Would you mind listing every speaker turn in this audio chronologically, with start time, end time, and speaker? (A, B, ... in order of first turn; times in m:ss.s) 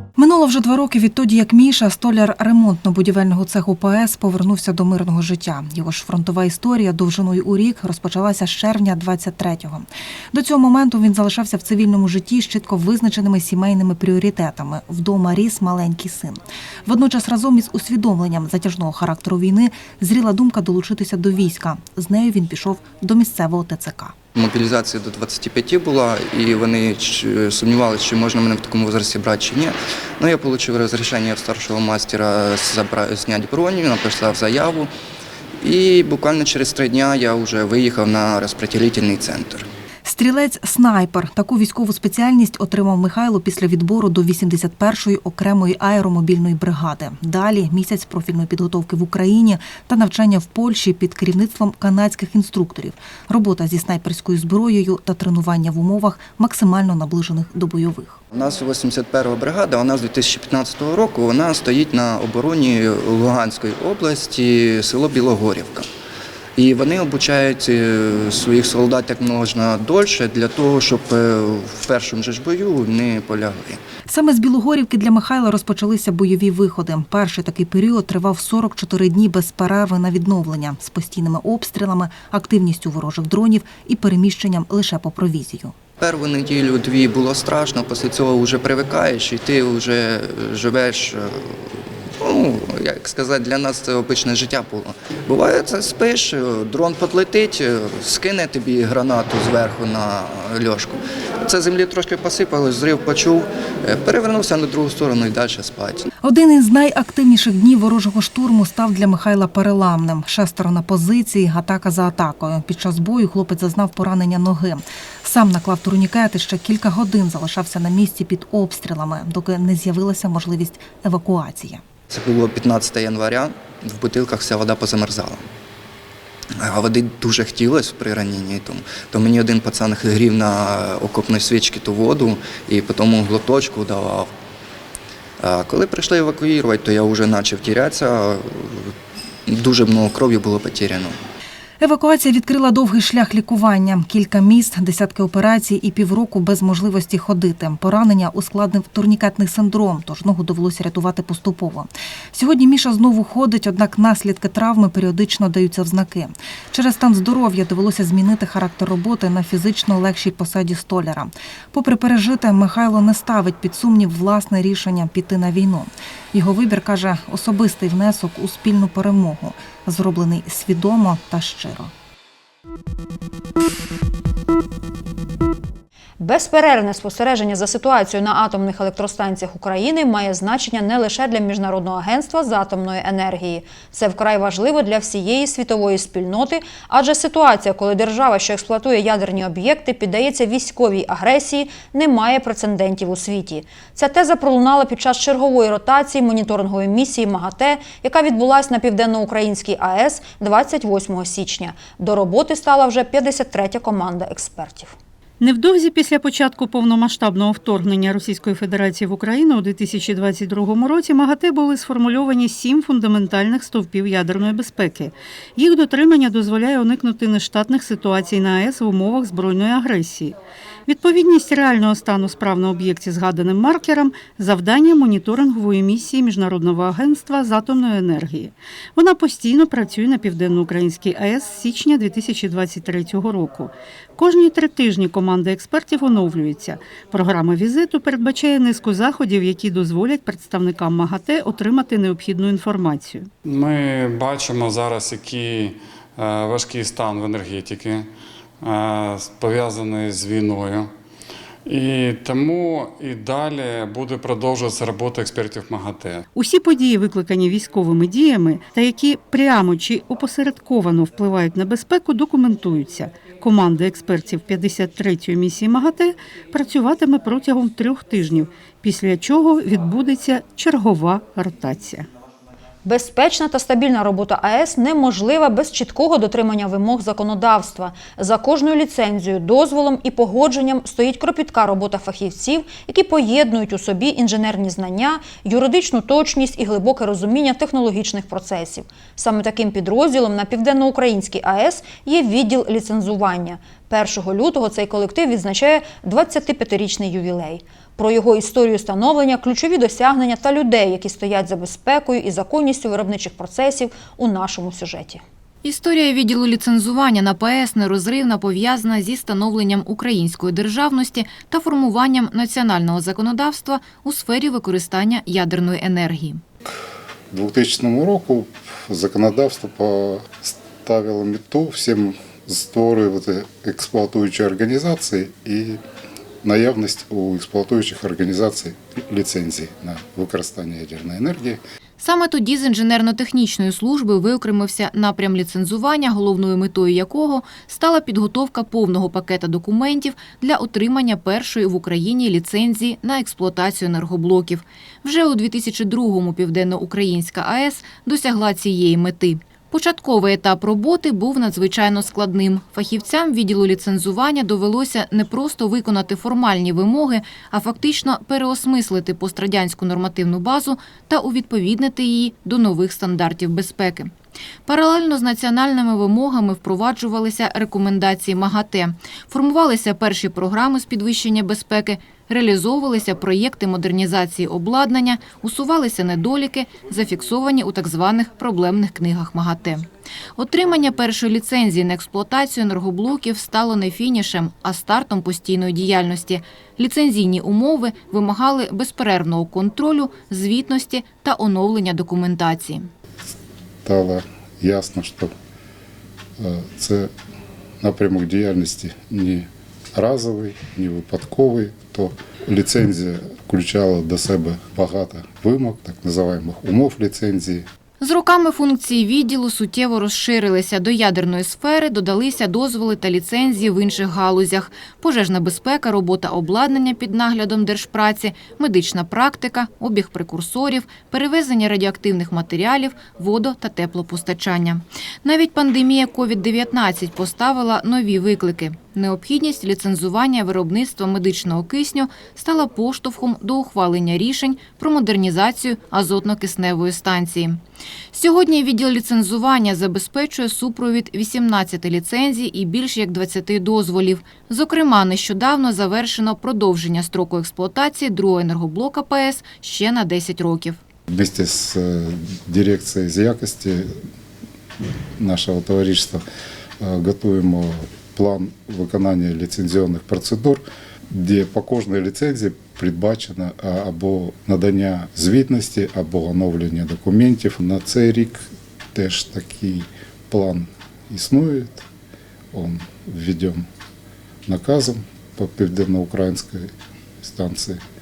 0:00.2-0:24.2 A
0:24.4-0:34.9 B
0:35.6-0:39.7 B
0:40.0-0:58.2 A
0:58.3-1:05.9 B
1:06.6-1:13.8 B
1:14.1-1:25.8 A
1:26.0-1:46.1 B
1:46.2-2:01.8 A
2:02.1-2:05.4 B
2:06.6-2:14.3 B
2:15.4-2:18.9 B
2:19.5-2:21.2 B
2:21.8-2:51.9 A
2:56.2-3:24.9 C
3:25.4-4:03.3 D
4:03.4-4:08.1 E
4:08.6-4:10.9 E
4:11.7-4:16.2 E
4:16.4-4:32.1 D
4:32.8-5:05.2 C
5:05.6-5:16.4 F
5:17.3-5:25.8 G
5:26.4-5:31.6 G
5:32.0-6:04.1 F
6:04.7-6:32.9 F
6:33.8-6:35.3 G
6:36.4-6:37.1 G
6:37.8-6:47.7 G
6:48.0-7:17.6 F
7:18.1-7:30.8 F
7:31.1-7:33.9 G
7:35.2-7:36.2 G
7:36.8-7:51.8 G
7:52.5-7:53.7 G
7:54.5-7:57.8 G